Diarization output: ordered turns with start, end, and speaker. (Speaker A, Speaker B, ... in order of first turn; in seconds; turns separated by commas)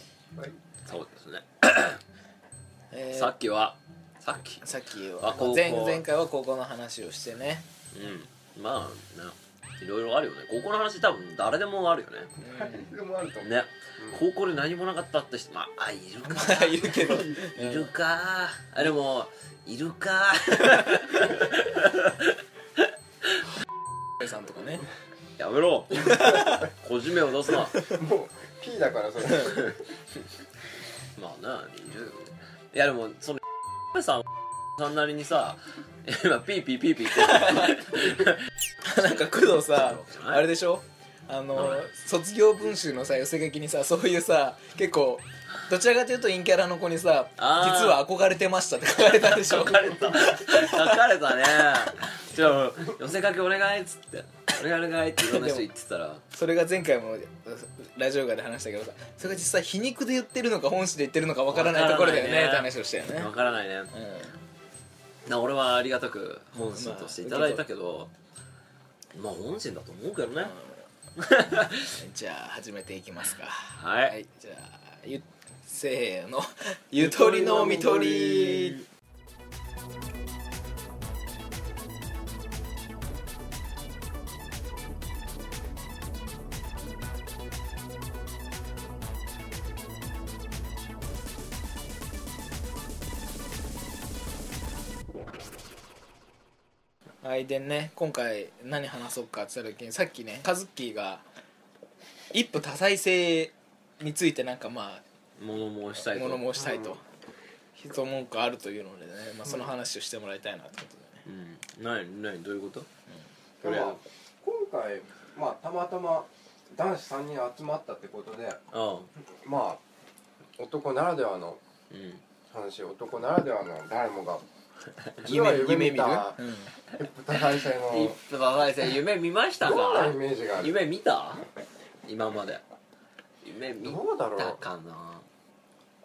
Speaker A: 0.8-2.0, Speaker B: 2.9-3.3, Speaker A: 3.1-4.7, Speaker B: 4.6-7.7, Speaker A: 5.2-6.0, Speaker A: 7.9-12.3, Speaker B: 12.4-12.9, Speaker C: 12.4-14.2, Speaker A: 13.4-23.5, Speaker B: 16.3-17.9, Speaker C: 17.0-17.4, Speaker B: 20.6-20.9, Speaker B: 24.2-24.9, Speaker A: 25.4-27.8, Speaker C: 26.0-26.6, Speaker B: 26.1-26.6, Speaker C: 27.8-29.8, Speaker A: 31.2-34.2, Speaker A: 34.8-38.4, Speaker B: 37.1-38.0, Speaker B: 38.9-51.0, Speaker A: 39.0-40.4, Speaker A: 41.5-41.9, Speaker A: 47.4-48.0, Speaker A: 49.1-56.2, Speaker B: 55.2-55.7, Speaker B: 56.3-63.3, Speaker A: 61.5-63.9, Speaker B: 63.9-64.3, Speaker A: 65.3-68.1, Speaker B: 66.7-67.6, Speaker A: 69.1-70.5, Speaker B: 70.4-70.8, Speaker A: 71.2-71.9, Speaker B: 71.9-78.8, Speaker A: 73.8-74.2, Speaker A: 77.1-78.8, Speaker C: 77.2-78.1, Speaker B: 97.2-101.2, Speaker B: 102.3-105.0, Speaker A: 105.4-106.5, Speaker B: 106.1-107.0, Speaker C: 106.6-107.0, Speaker B: 107.8-111.2, Speaker A: 111.3-112.9, Speaker A: 113.6-114.0, Speaker C: 113.6-118.6, Speaker A: 118.7-119.1, Speaker C: 119.3-119.8, Speaker C: 120.6-121.6, Speaker A: 121.9-122.2, Speaker C: 122.5-124.5, Speaker C: 125.2-128.2, Speaker B: 125.2-126.7, Speaker A: 127.7-131.5, Speaker C: 129.6-130.8, Speaker A: 132.1-132.6, Speaker A: 133.4-135.3, Speaker C: 133.8-134.6